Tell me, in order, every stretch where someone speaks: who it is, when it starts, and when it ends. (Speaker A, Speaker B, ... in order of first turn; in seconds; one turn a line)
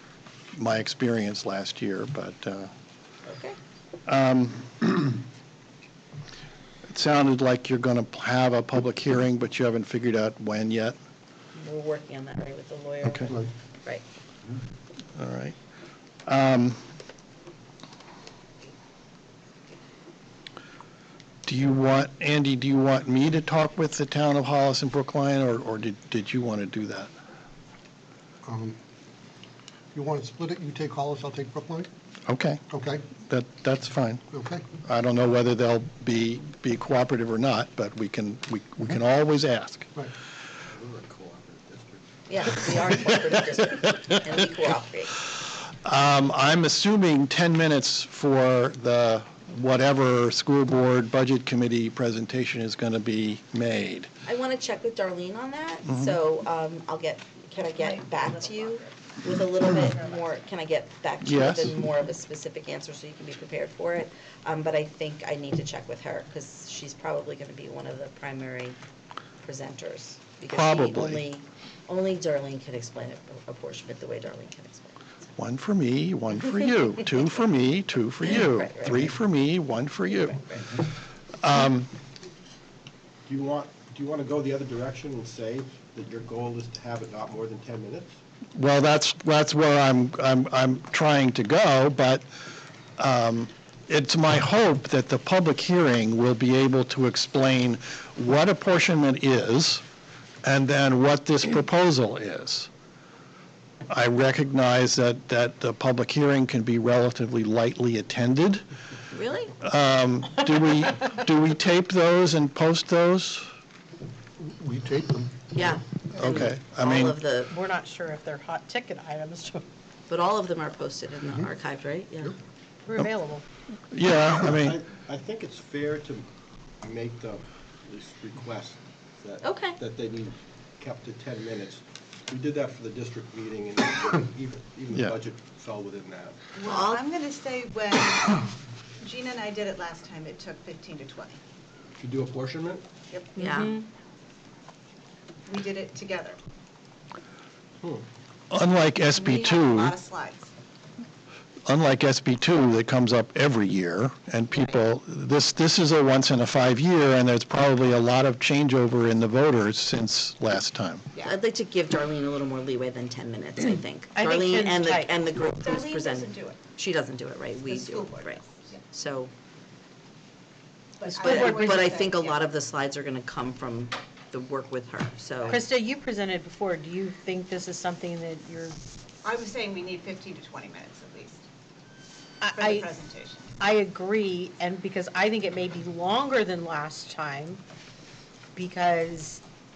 Speaker A: 0.6-2.7
Speaker B: 3.2-3.6
Speaker A: 4.1-5.2
Speaker A: 6.9-11.0
Speaker B: 11.5-14.0
Speaker A: 13.0-13.3
Speaker A: 15.2-15.6
Speaker A: 16.3-16.8
Speaker A: 21.5-27.1
Speaker C: 28.5-28.8
Speaker C: 29.9-31.9
Speaker A: 32.3-34.2
Speaker C: 32.7-33.0
Speaker C: 34.3-34.7
Speaker A: 34.8-39.9
Speaker D: 40.7-42.0
Speaker B: 42.3-45.2
Speaker A: 45.8-54.1
Speaker B: 54.2-68.8
Speaker A: 55.9-56.1
Speaker E: 57.8-58.9
Speaker E: 59.6-60.4
Speaker A: 61.2-61.7
Speaker B: 69.4-75.1
Speaker A: 70.5-71.2
Speaker A: 75.4-80.8
Speaker B: 78.2-79.2
Speaker B: 80.1-80.8
Speaker A: 81.4-81.9
Speaker D: 83.3-88.2
Speaker A: 88.5-92.2
Speaker A: 93.0-99.8
Speaker A: 100.4-102.7
Speaker A: 103.9-108.6
Speaker B: 109.1-109.5
Speaker A: 109.6-113.5
Speaker C: 114.4-115.3
Speaker B: 115.5-117.5
Speaker A: 116.1-117.2
Speaker F: 117.5-119.6
Speaker B: 120.1-122.3
Speaker F: 122.9-123.5
Speaker A: 123.9-124.8
Speaker D: 124.5-126.3
Speaker D: 126.8-136.5
Speaker B: 129.4-129.8
Speaker E: 136.5-138.4
Speaker B: 136.6-137.0
Speaker E: 139.0-141.4
Speaker D: 142.0-142.9
Speaker F: 143.4-143.8
Speaker B: 143.4-143.8
Speaker E: 145.5-146.4
Speaker A: 148.5-149.9
Speaker E: 149.1-150.5
Speaker A: 151.7-161.1
Speaker B: 161.2-169.3
Speaker F: 164.2-165.1
Speaker E: 165.4-166.6
Speaker E: 167.7-168.8
Speaker E: 171.0-172.4
Speaker F: 171.0-172.0
Speaker B: 171.2-175.7
Speaker F: 175.4-178.8
Speaker E: 179.2-181.4
Speaker F: 182.4-182.9
Speaker E: 182.5-183.5
Speaker F: 183.6-187.6
Speaker F: 188.6-189.4